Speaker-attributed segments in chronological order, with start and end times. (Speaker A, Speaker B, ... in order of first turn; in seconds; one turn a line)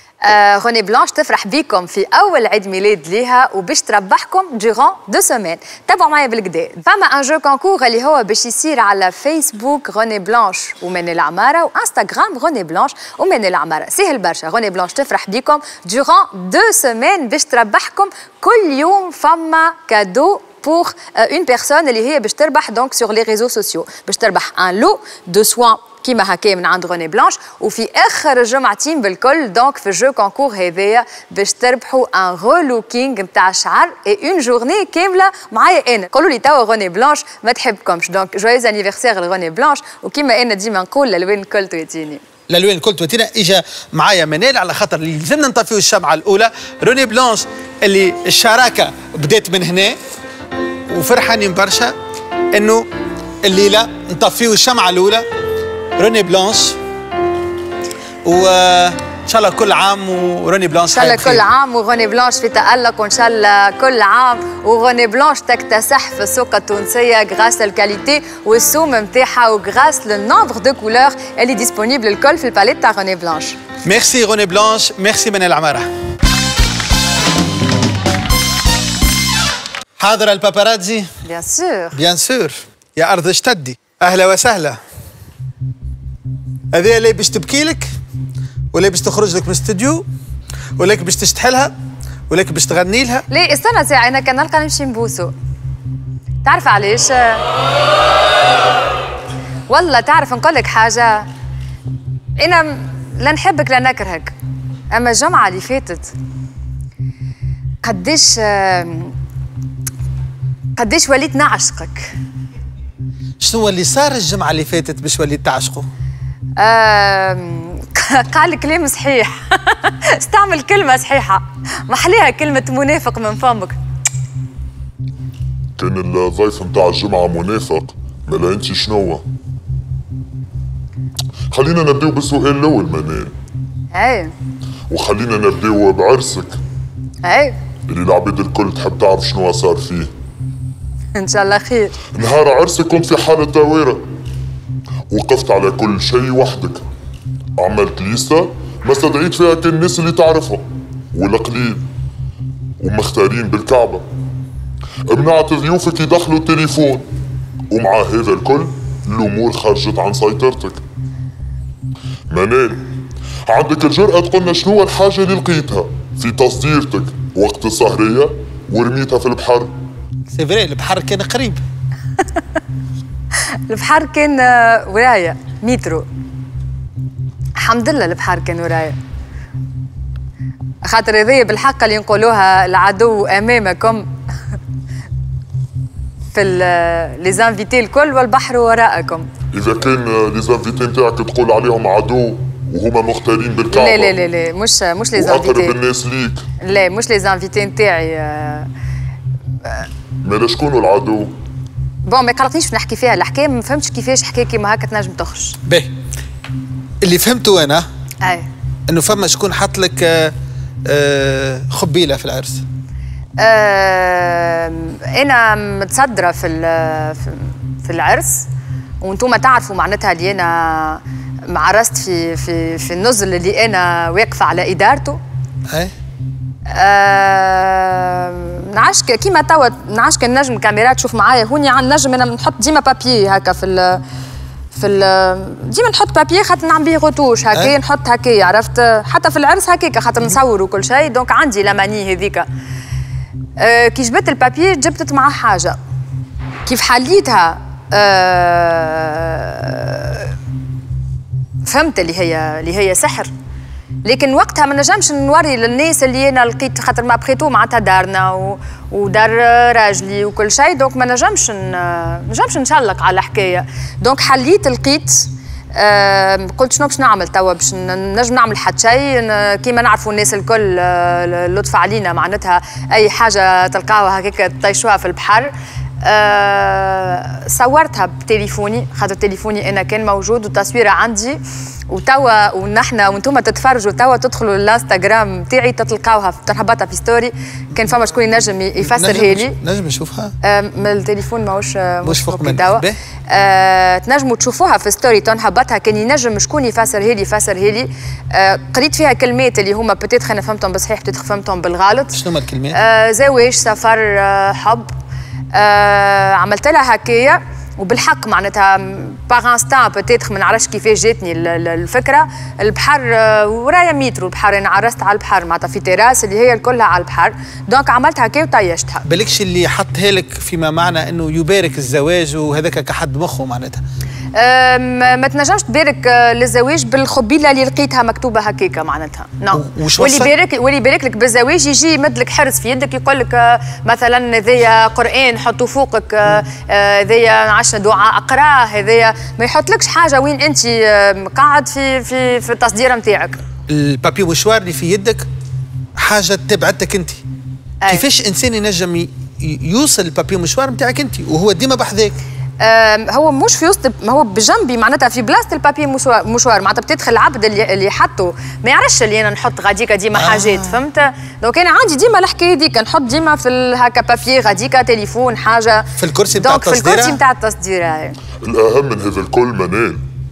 Speaker A: 0.2-42.2
Speaker B: 42.5-50.0
Speaker B: 50.9-51.9
Speaker B: 52.5-52.9
Speaker B: 53.4-55.2
Speaker B: 56.0-56.8
Speaker B: 58.2-61.5
Speaker A: 60.9-73.6
Speaker B: 73.8-75.9
Speaker B: 80.0-81.1
Speaker A: 81.2-82.0
Speaker B: 81.9-84.8
Speaker B: 86.7-87.9
Speaker B: 88.7-90.1
Speaker B: 90.8-91.7
Speaker B: 92.3-93.3
Speaker A: 93.3-95.3
Speaker A: 96.4-97.4
Speaker A: 99.7-101.3
Speaker A: 102.4-104.3
Speaker A: 104.9-106.1
Speaker A: 107.8-109.1
Speaker A: 110.8-112.1
Speaker B: 113.4-115.9
Speaker A: 116.6-123.8
Speaker C: 125.8-129.2
Speaker C: 131.5-133.3
Speaker A: 133.9-134.3
Speaker C: 134.9-136.6
Speaker A: 137.2-137.6
Speaker C: 137.9-140.1
Speaker A: 141.2-142.0
Speaker C: 142.1-144.0
Speaker C: 145.1-146.8
Speaker C: 147.6-151.8
Speaker C: 152.8-154.1
Speaker C: 155.1-157.1
Speaker C: 157.7-160.8
Speaker C: 162.3-162.8
Speaker C: 163.5-169.7
Speaker B: 170.3-171.6
Speaker A: 173.7-176.1
Speaker A: 177.6-179.0
Speaker A: 180.8-184.1
Speaker A: 186.3-189.3
Speaker C: 189.5-194.1
Speaker A: 193.7-195.8
Speaker C: 195.2-196.5
Speaker A: 196.6-198.7
Speaker C: 200.2-201.3
Speaker A: 202.1-205.6
Speaker B: 205.7-205.9
Speaker B: 207.0-207.9
Speaker A: 208.2-208.5
Speaker B: 208.9-210.3
Speaker B: 210.8-212.6
Speaker A: 213.4-218.5
Speaker A: 219.0-225.2
Speaker A: 226.7-234.0
Speaker A: 234.7-242.5
Speaker A: 243.6-245.8
Speaker A: 246.7-250.3
Speaker A: 251.6-253.3
Speaker A: 254.1-289.6
Speaker B: 288.8-290.3
Speaker A: 290.4-302.2
Speaker B: 292.0-293.0
Speaker B: 302.1-302.8
Speaker A: 302.7-304.9
Speaker A: 305.5-319.1
Speaker B: 319.1-323.8
Speaker A: 324.4-343.4
Speaker B: 329.5-330.3
Speaker B: 343.7-345.3
Speaker B: 346.0-347.2
Speaker B: 347.9-352.2
Speaker A: 352.6-368.2
Speaker B: 360.1-360.8
Speaker B: 366.0-367.2
Speaker C: 368.4-370.0